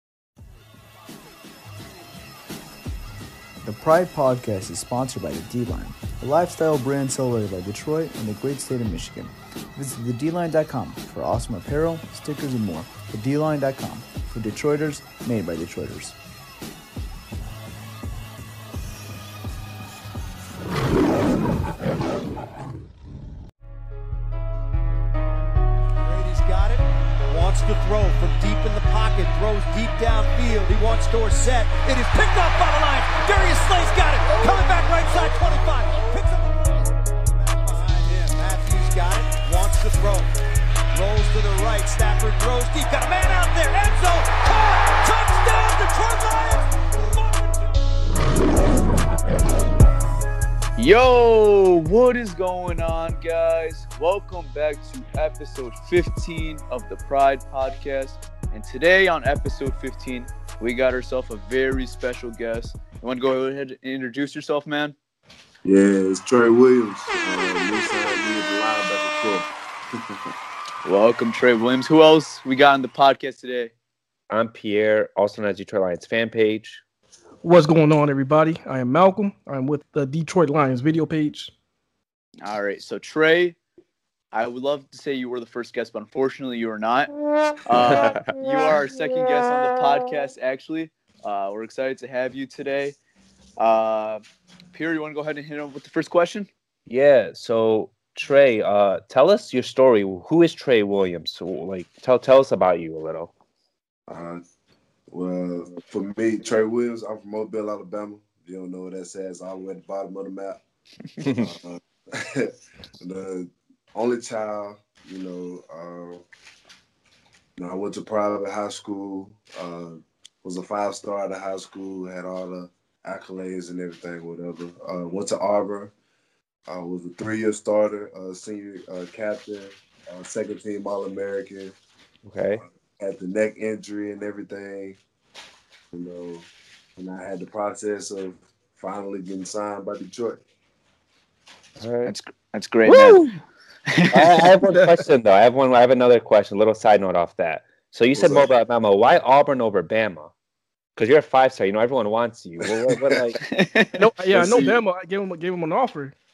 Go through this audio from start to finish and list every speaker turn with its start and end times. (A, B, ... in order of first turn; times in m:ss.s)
0:03.6-0:16.2 A
0:26.0-0:40.3 B
0:40.9-0:47.8 B
0:50.8-1:04.9 C
1:05.6-1:09.5 D
1:10.8-1:13.7 C
1:14.3-1:16.8 E
1:17.4-1:21.5 F
1:22.4-1:23.6 C
1:24.3-1:27.1 C
1:27.6-1:33.0 C
1:27.8-1:28.2 E
1:33.6-1:36.5 C
1:36.9-1:43.3 E
1:44.1-1:44.4 D
1:45.1-1:50.6 D
1:51.4-1:56.2 D
1:57.6-2:05.9 D
2:06.7-2:11.7 D
2:12.2-2:12.6 E
2:13.0-2:15.0 D
2:15.9-2:20.4 D
2:21.8-2:22.1 E
2:22.0-2:23.3 C
2:24.0-2:24.2 C
2:24.1-2:30.3 E
2:28.1-2:28.5 D
2:31.0-2:33.4 E
2:33.5-2:34.6 C
2:34.0-2:36.1 F
2:34.3-2:34.8 D